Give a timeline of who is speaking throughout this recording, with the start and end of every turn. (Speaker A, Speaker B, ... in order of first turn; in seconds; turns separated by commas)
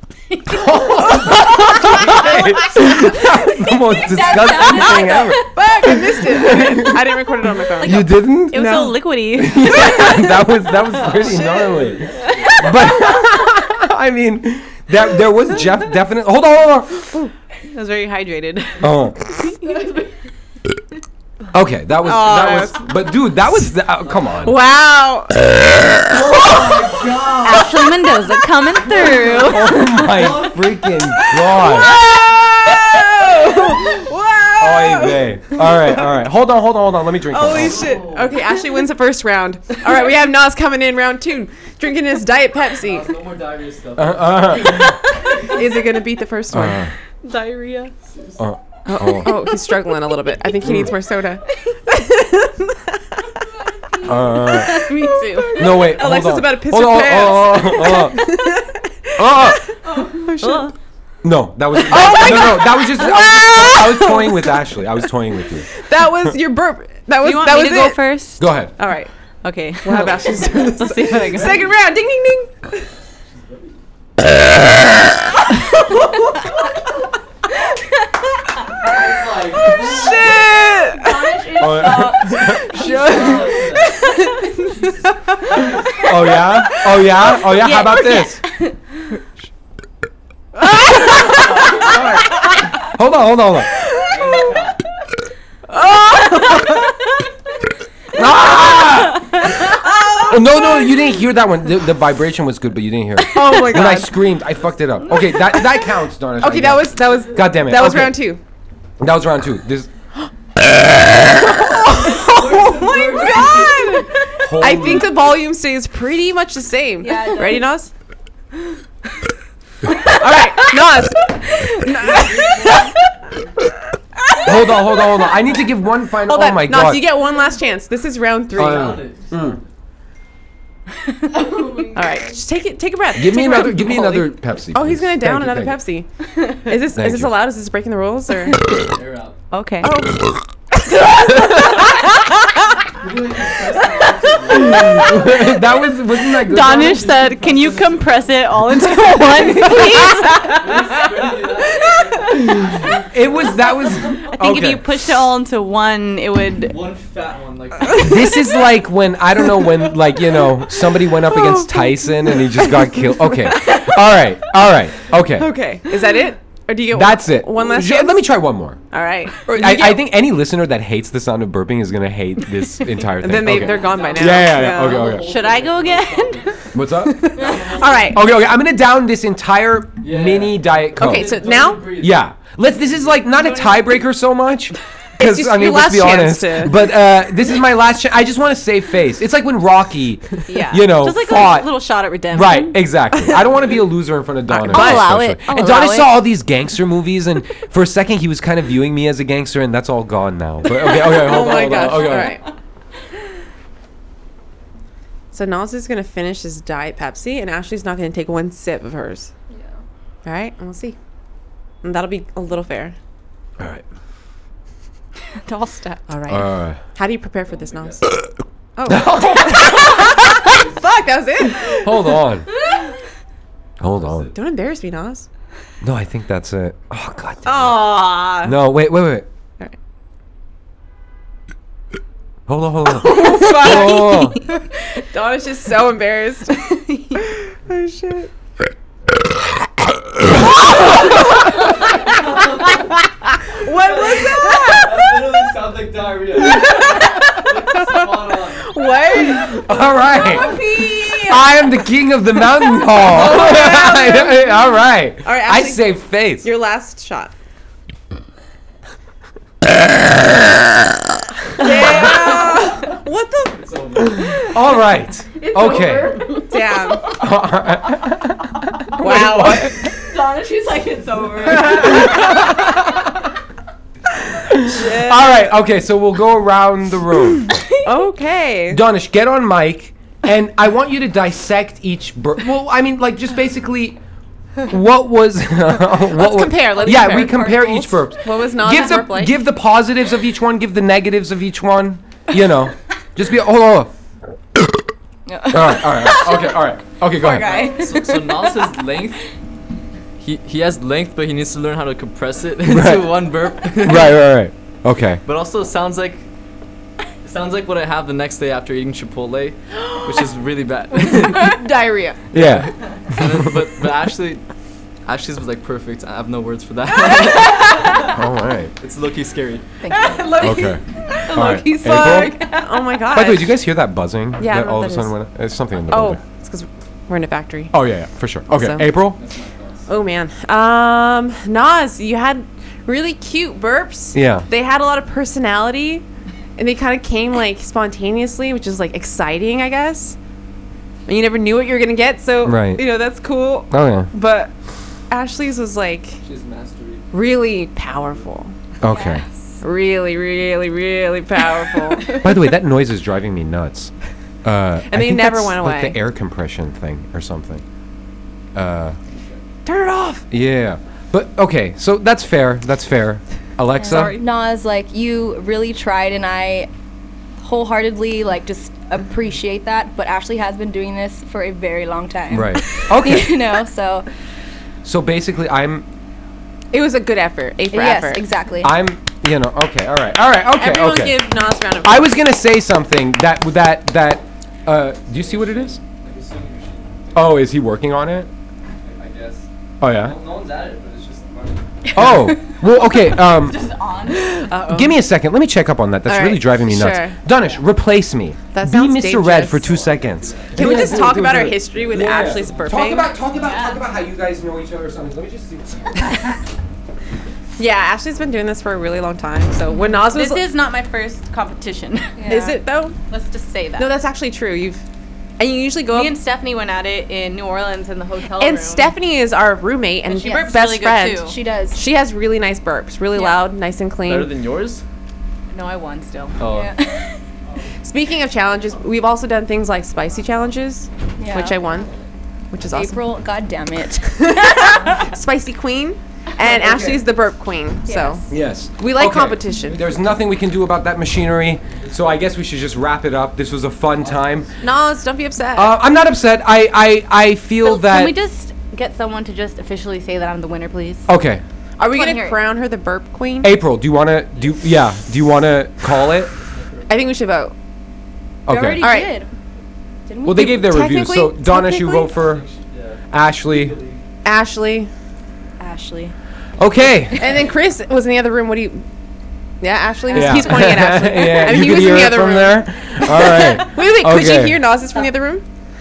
Speaker A: 0.3-1.3, Speaker B: 0.5-7.0, Speaker C: 3.9-5.5, Speaker D: 5.4-9.1, Speaker A: 7.8-10.3, Speaker B: 7.8-17.0, Speaker D: 9.8-10.2, Speaker E: 11.0-12.6, Speaker A: 17.7-20.1, Speaker B: 18.8-19.3, Speaker B: 21.5-24.6, Speaker D: 22.0-22.9, Speaker D: 24.4-25.5, Speaker E: 26.1-27.9, Speaker A: 27.4-30.3, Speaker E: 28.8-30.6, Speaker B: 29.4-32.0, Speaker D: 31.5-36.2, Speaker B: 34.6-37.9, Speaker D: 37.3-43.1, Speaker E: 37.5-38.4, Speaker E: 42.8-45.0, Speaker B: 44.0-45.0, Speaker D: 45.4-46.8, Speaker B: 46.5-46.9, Speaker A: 47.2-47.9, Speaker E: 48.1-48.4, Speaker B: 48.4-49.4, Speaker D: 48.9-53.3, Speaker B: 50.6-50.9, Speaker A: 53.9-55.9, Speaker B: 54.0-54.9, Speaker D: 54.7-60.7, Speaker B: 55.5-58.3, Speaker B: 59.1-59.6, Speaker A: 59.9-60.7, Speaker B: 61.2-65.8, Speaker D: 61.7-64.7, Speaker D: 65.7-68.0, Speaker A: 67.2-68.5, Speaker B: 68.4-68.7, Speaker D: 68.8-69.1, Speaker A: 69.4-71.6, Speaker D: 69.8-72.8, Speaker E: 73.3-73.7, Speaker E: 78.8-80.5, Speaker D: 79.6-81.3, Speaker A: 80.6-83.7, Speaker B: 81.6-82.7, Speaker C: 81.7-83.7, Speaker E: 82.6-84.0, Speaker E: 85.5-86.4, Speaker B: 86.0-88.4, Speaker A: 87.6-88.0, Speaker C: 87.7-88.6, Speaker D: 90.6-92.1, Speaker B: 91.8-93.8, Speaker E: 94.0-94.8, Speaker D: 95.7-96.8, Speaker B: 98.1-99.5, Speaker D: 99.6-100.6, Speaker B: 100.2-108.2, Speaker D: 103.3-104.3, Speaker D: 106.4-108.4, Speaker B: 109.0-109.9, Speaker D: 111.3-117.9, Speaker E: 111.9-114.0, Speaker B: 114.4-115.1, Speaker C: 117.0-117.6, Speaker D: 120.0-122.9, Speaker E: 122.1-122.9, Speaker B: 124.4-127.1, Speaker D: 124.5-125.0, Speaker D: 126.2-129.0, Speaker B: 128.5-129.6, Speaker E: 128.5-129.6, Speaker C: 131.5-131.8, Speaker D: 131.8-138.6, Speaker B: 133.2-135.8, Speaker A: 133.4-134.3, Speaker B: 136.9-137.3, Speaker E: 138.7-139.4, Speaker A: 139.5-140.0, Speaker D: 139.8-141.7, Speaker E: 142.9-145.4, Speaker B: 144.7-147.1, Speaker A: 146.4-150.7, Speaker E: 146.6-148.4, Speaker E: 149.6-154.3, Speaker B: 153.1-154.8, Speaker A: 154.2-156.8, Speaker E: 156.6-158.4, Speaker B: 157.9-165.5, Speaker D: 161.2-164.0, Speaker D: 165.2-168.2, Speaker B: 166.9-168.8, Speaker D: 168.9-170.0, Speaker B: 169.4-175.3, Speaker D: 173.2-175.2, Speaker E: 173.4-176.7, Speaker A: 175.1-176.5, Speaker B: 176.7-177.4, Speaker D: 177.2-178.3, Speaker E: 177.3-178.1, Speaker B: 178.0-191.8, Speaker E: 180.0-183.2, Speaker D: 181.0-181.9, Speaker A: 183.4-184.0, Speaker D: 185.2-186.9, Speaker A: 190.5-192.8, Speaker B: 192.3-202.4, Speaker A: 194.5-196.2, Speaker D: 194.5-195.1, Speaker D: 200.8-202.4, Speaker A: 201.9-202.3, Speaker D: 205.3-209.3, Speaker D: 210.2-211.0, Speaker D: 211.8-212.9, Speaker B: 213.6-213.8, Speaker A: 215.4-216.0, Speaker D: 216.1-218.1, Speaker B: 216.3-216.8, Speaker E: 217.5-218.2, Speaker D: 218.8-222.2, Speaker B: 218.8-220.1, Speaker E: 220.4-220.9, Speaker B: 221.8-222.5, Speaker B: 223.8-224.3, Speaker E: 223.8-224.3, Speaker D: 224.3-225.3, Speaker B: 225.8-229.3, Speaker D: 227.4-228.6, Speaker B: 232.5-234.4, Speaker D: 233.0-238.3, Speaker A: 233.1-234.4, Speaker A: 236.7-237.2, Speaker E: 241.8-242.9, Speaker D: 243.4-245.1, Speaker E: 243.7-248.8, Speaker D: 246.4-251.6, Speaker B: 249.5-256.5, Speaker D: 252.8-254.6, Speaker D: 255.2-257.3, Speaker D: 261.6-263.6, Speaker E: 263.5-264.5, Speaker B: 264.4-266.3, Speaker A: 265.4-266.5, Speaker D: 266.5-267.1, Speaker B: 267.1-268.4, Speaker B: 268.9-269.7, Speaker D: 269.0-269.7, Speaker A: 269.0-272.4, Speaker B: 274.5-277.5, Speaker D: 274.6-275.4, Speaker D: 277.8-278.8, Speaker B: 278.7-284.0, Speaker B: 284.6-293.9, Speaker D: 286.1-289.4, Speaker C: 287.1-287.6, Speaker B: 295.4-297.7, Speaker A: 296.1-296.5, Speaker A: 297.2-298.4, Speaker E: 297.5-299.2, Speaker E: 300.2-304.2, Speaker B: 302.6-305.2, Speaker E: 305.2-306.3, Speaker E: 307.2-311.6, Speaker D: 311.1-312.2, Speaker B: 312.3-313.5, Speaker E: 312.3-314.4, Speaker E: 315.0-318.1, Speaker D: 317.1-317.9, Speaker B: 318.0-318.7, Speaker E: 318.8-320.1, Speaker A: 319.8-322.8, Speaker C: 319.9-320.7, Speaker B: 320.4-322.4, Speaker D: 321.4-323.6, Speaker B: 323.1-326.2, Speaker D: 324.4-325.1, Speaker D: 325.9-327.8, Speaker B: 327.7-329.2, Speaker D: 328.5-328.8, Speaker E: 329.0-329.9, Speaker D: 329.9-336.0, Speaker B: 334.1-334.5, Speaker D: 336.6-340.2, Speaker D: 341.1-344.5, Speaker B: 342.4-342.8, Speaker B: 343.7-344.1, Speaker D: 345.1-346.2, Speaker E: 346.2-347.1, Speaker D: 347.1-348.5, Speaker B: 348.8-349.2, Speaker D: 349.6-352.2, Speaker B: 352.2-353.9, Speaker B: 354.4-357.6, Speaker D: 354.9-356.0, Speaker B: 358.5-359.0, Speaker E: 359.0-359.4, Speaker D: 359.6-360.2, Speaker B: 360.3-364.2, Speaker C: 363.8-366.7, Speaker D: 363.8-364.2, Speaker C: 367.4-374.1, Speaker B: 372.3-373.4, Speaker B: 374.8-375.9, Speaker D: 376.7-378.2, Speaker C: 377.7-378.8, Speaker B: 378.6-381.3, Speaker D: 380.5-382.2, Speaker B: 381.8-385.8, Speaker E: 385.1-387.5, Speaker B: 387.1-388.3, Speaker E: 388.8-392.2, Speaker B: 389.8-390.2, Speaker B: 391.9-393.6, Speaker A: 393.2-394.7, Speaker D: 394.5-394.9, Speaker B: 394.7-406.2, Speaker D: 396.1-397.2, Speaker D: 398.5-399.6, Speaker E: 399.5-402.9, Speaker D: 400.5-403.1, Speaker A: 403.4-403.8, Speaker D: 407.6-410.4, Speaker A: 409.8-412.5, Speaker C: 412.2-412.6, Speaker D: 412.2-413.0, Speaker A: 413.1-413.9, Speaker D: 413.8-414.8, Speaker D: 415.4-416.1, Speaker A: 415.9-418.9, Speaker D: 418.3-424.3, Speaker A: 420.1-421.4, Speaker C: 421.2-421.8, Speaker A: 423.1-423.4, Speaker E: 424.1-424.8, Speaker A: 425.5-426.4, Speaker E: 426.4-426.7, Speaker C: 426.4-427.2, Speaker E: 427.4-427.8, Speaker D: 427.8-431.9, Speaker E: 428.4-428.9, Speaker E: 430.0-430.4, Speaker C: 431.2-431.5, Speaker E: 431.7-432.0, Speaker D: 432.5-433.0, Speaker C: 432.7-434.9, Speaker D: 434.2-438.2, Speaker B: 436.4-437.0, Speaker C: 437.9-438.3, Speaker B: 438.3-444.5, Speaker D: 438.8-439.9, Speaker E: 441.6-442.4, Speaker E: 443.9-444.9, Speaker D: 444.6-445.8, Speaker B: 445.5-448.1, Speaker A: 447.6-451.1, Speaker B: 451.1-451.4, Speaker D: 451.8-453.6, Speaker A: 451.8-452.4, Speaker B: 453.4-456.3, Speaker E: 454.3-454.8, Speaker E: 456.3-457.1, Speaker D: 456.9-457.5, Speaker B: 458.4-458.9, Speaker C: 458.5-459.3, Speaker D: 458.8-459.2, Speaker C: 460.1-460.6, Speaker B: 460.2-462.5, Speaker D: 460.3-462.1, Speaker E: 462.1-464.0, Speaker B: 463.1-463.8, Speaker D: 464.2-464.9, Speaker A: 465.6-466.1, Speaker B: 466.6-467.3, Speaker D: 467.2-468.8, Speaker D: 469.6-475.4, Speaker A: 470.1-470.6, Speaker B: 470.1-474.6